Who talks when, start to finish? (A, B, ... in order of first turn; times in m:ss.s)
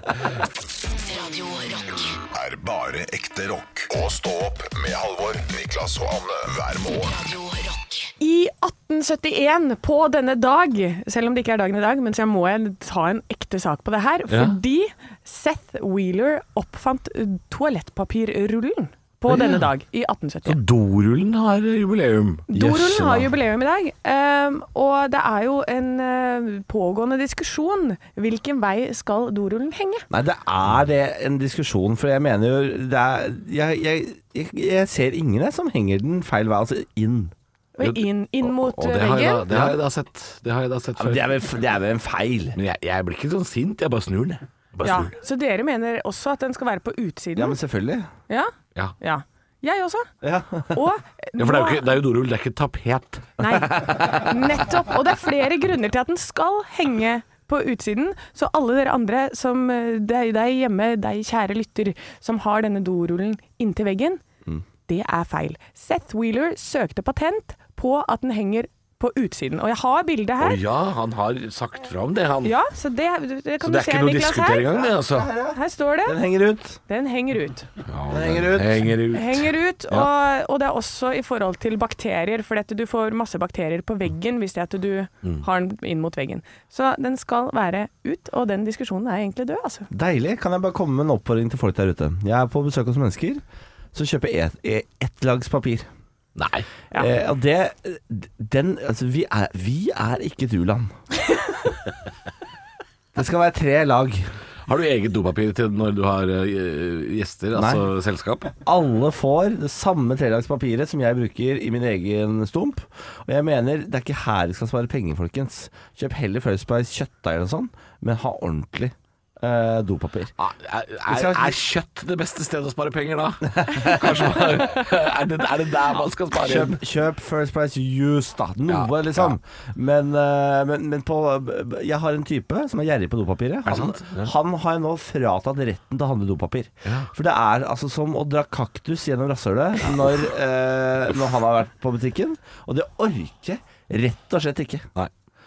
0:01.0-0:02.2 A
0:02.3-0:07.2 B
0:07.0-0:08.1 A
0:08.2-0:20.6 C
0:14.3-0:14.6 D
0:19.3-0:19.7 D
0:20.5-0:22.5 D
0:22.5-0:30.1 C
0:22.5-0:23.3 E
0:30.1-0:37.3 E
0:37.8-0:39.4 C
0:37.8-0:41.4 D
0:39.5-0:39.8 E
0:41.0-0:42.6 E
0:42.6-0:45.1 D
0:44.8-0:47.6 C
0:47.4-0:48.1 E
0:48.3-0:50.1 C
0:50.2-0:50.9 E
0:50.7-0:51.8 C
0:51.4-0:53.3 D
0:53.4-1:04.2 C
0:53.6-0:54.2 E
1:04.9-1:10.6 C
1:10.4-1:12.6 D
1:12.4-1:14.9 C
1:13.6-1:15.3 D
1:14.9-1:16.8 E
1:15.5-1:16.2 C
1:16.9-1:17.7 C
1:17.9-1:20.1 D
1:18.1-1:19.0 E
1:19.1-1:29.9 C
1:29.9-1:33.4 E
1:33.9-1:35.9 E
1:36.4-1:36.7 D
1:36.9-1:40.9 E
1:43.2-1:44.3 E
1:44.7-1:48.5 D
1:47.5-1:47.8 E
1:48.6-2:00.3 E
2:00.4-2:06.8 D
2:01.1-2:01.6 E
2:03.6-2:04.4 E
2:06.4-2:24.9 E
2:08.7-2:09.4 D
2:13.7-2:14.3 D